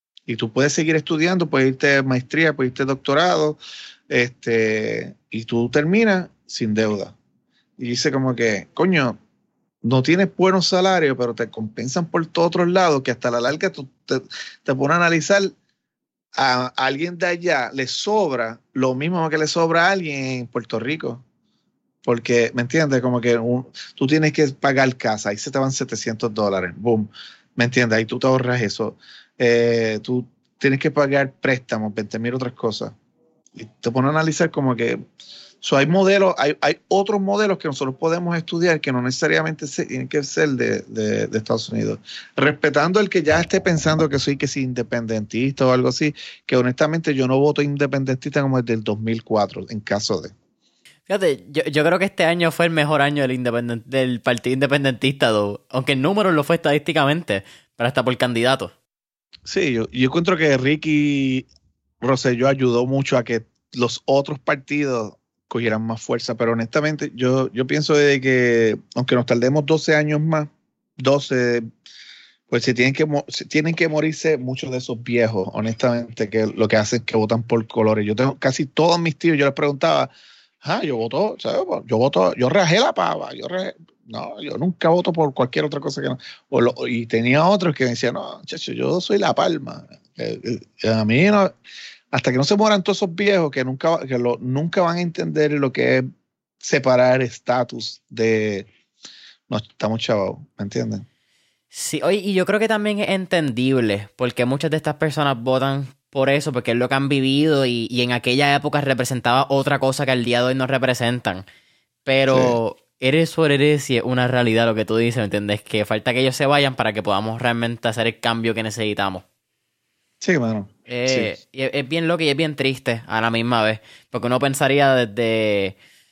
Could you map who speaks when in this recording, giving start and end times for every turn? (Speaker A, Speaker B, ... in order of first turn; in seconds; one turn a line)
Speaker A: 0.3-3.6
Speaker A: 4.1-7.1
Speaker A: 7.8-9.2
Speaker A: 9.8-15.6
Speaker A: 16.3-21.2
Speaker A: 22.0-32.9
Speaker A: 33.5-35.0
Speaker A: 35.6-50.3
Speaker B: 51.1-58.7
Speaker A: 59.5-61.5
Speaker A: 62.0-71.6
Speaker A: 72.5-80.1
Speaker A: 80.6-91.5
Speaker A: 92.1-96.1
Speaker A: 96.6-98.7
Speaker A: 99.5-101.0
Speaker B: 101.7-111.5
Speaker B: 112.0-119.2
Speaker A: 112.3-112.6
Speaker A: 120.2-121.3
Speaker B: 120.9-125.8